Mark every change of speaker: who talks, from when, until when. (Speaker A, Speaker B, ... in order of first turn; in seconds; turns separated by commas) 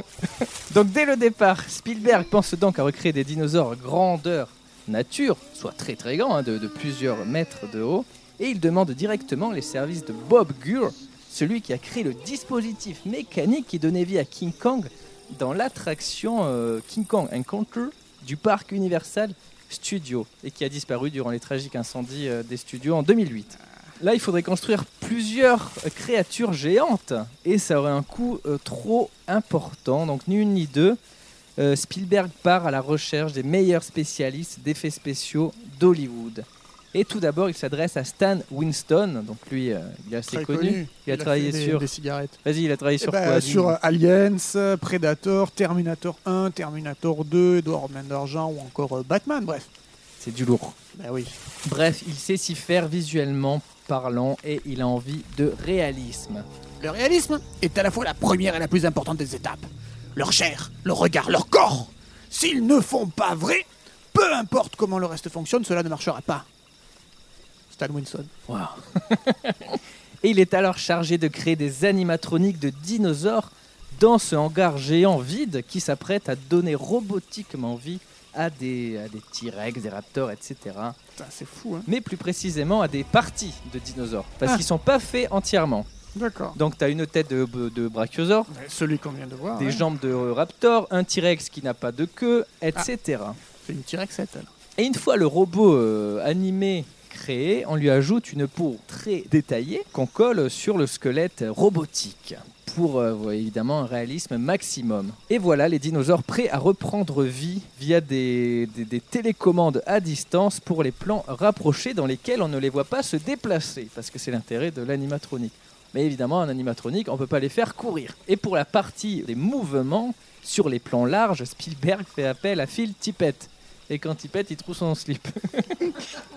Speaker A: 0.4-31.0, Speaker A: 31.6-41.9, Speaker B: 40.3-42.4, Speaker A: 42.4-43.8, Speaker B: 43.0-49.7, Speaker A: 50.2-50.8, Speaker B: 50.9-51.4, Speaker A: 51.6-56.4, Speaker B: 56.8-66.5, Speaker B: 67.7-68.3, Speaker A: 68.5-81.0, Speaker B: 81.2-81.9, Speaker A: 81.9-85.9, Speaker B: 86.1-86.6, Speaker A: 86.5-88.5, Speaker B: 88.5-89.8, Speaker A: 89.5-93.4, Speaker B: 93.6-94.5, Speaker A: 94.8-126.0